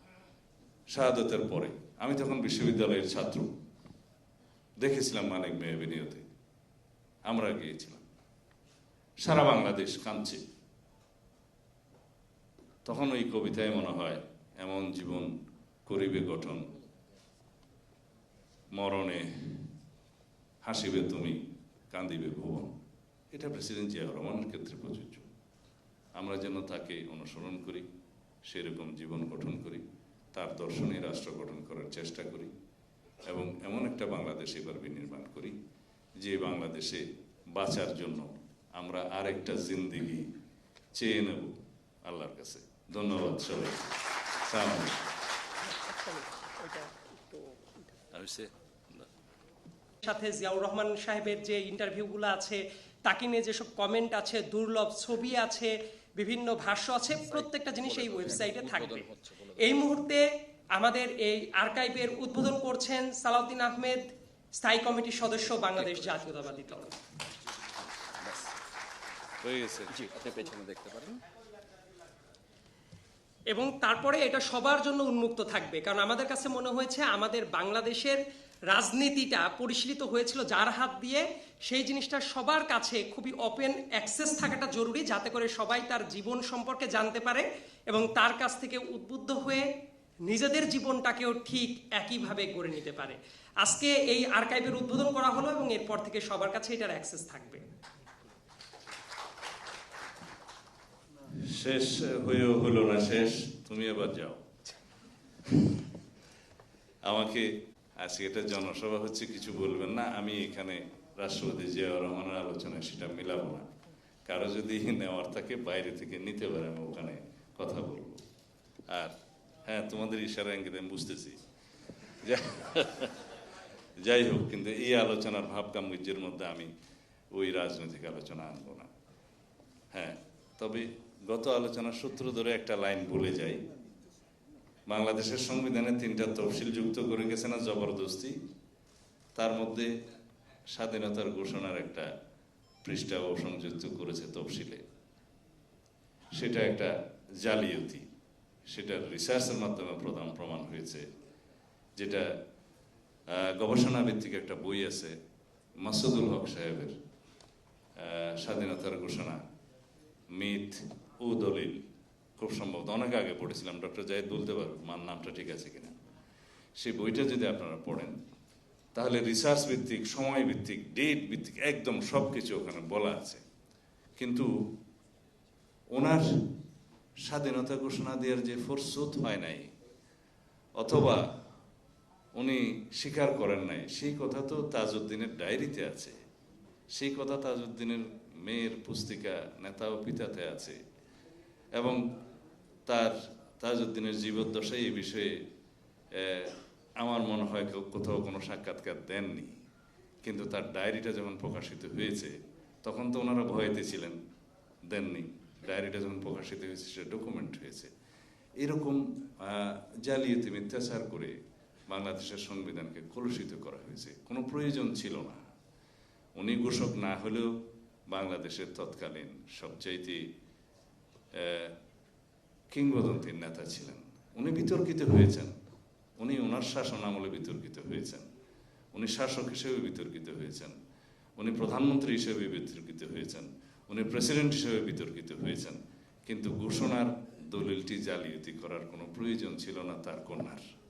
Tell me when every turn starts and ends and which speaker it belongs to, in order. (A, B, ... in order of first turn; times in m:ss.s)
0:00.9-0:03.5 A
0:04.8-0:06.3 A
0:07.2-0:08.0 A
0:09.2-0:10.4 A
0:12.8-0:16.7 A
0:18.7-0:19.7 A
0:20.6-0:22.7 A
0:23.3-0:25.3 A
0:26.2-0:27.9 A
0:28.4-0:32.5 A
0:33.2-0:35.6 A
0:36.2-0:40.3 A
0:40.9-0:45.1 A
0:45.6-0:47.9 B
0:48.1-0:49.1 A
0:50.0-0:59.1 B
0:57.3-0:59.8 C
0:59.6-1:06.9 B
1:05.6-1:06.9 C
1:08.0-1:08.5 C
1:09.4-1:10.0 A
1:09.9-1:11.2 C
1:13.5-1:29.7 B
1:30.3-1:37.6 B
1:41.3-1:44.5 A
1:45.5-1:45.8 A
1:47.0-1:53.7 A
1:54.2-1:58.2 A
1:58.9-2:01.4 A
2:02.1-2:03.3 A
2:04.0-2:06.7 A
2:07.3-2:08.9 A
2:09.9-2:13.6 A
2:14.9-2:18.4 A
2:19.3-2:19.9 A
2:20.7-2:22.1 A
2:22.8-2:24.8 A
2:26.3-2:28.1 A
2:28.7-2:31.1 A
2:32.0-2:32.4 A
2:33.3-2:35.2 A
2:35.8-2:37.0 A
2:38.0-2:39.4 A
2:40.3-2:41.8 A
2:42.4-2:46.0 A
2:46.8-2:48.2 A
2:48.9-2:53.4 A
2:54.2-2:54.7 A
2:55.9-2:56.5 A
2:57.2-2:59.7 A
3:00.8-3:01.3 A
3:02.3-3:06.2 A
3:06.9-3:10.8 A
3:11.7-3:12.1 A
3:12.8-3:15.4 A
3:16.1-3:19.6 A
3:20.2-3:24.2 A
3:24.8-3:27.9 A
3:28.6-3:35.4 A
3:36.3-3:40.3 A
3:41.3-3:41.7 A
3:42.7-3:45.6 A
3:46.2-3:48.3 A
3:48.9-3:50.8 A
3:51.4-4:00.6 A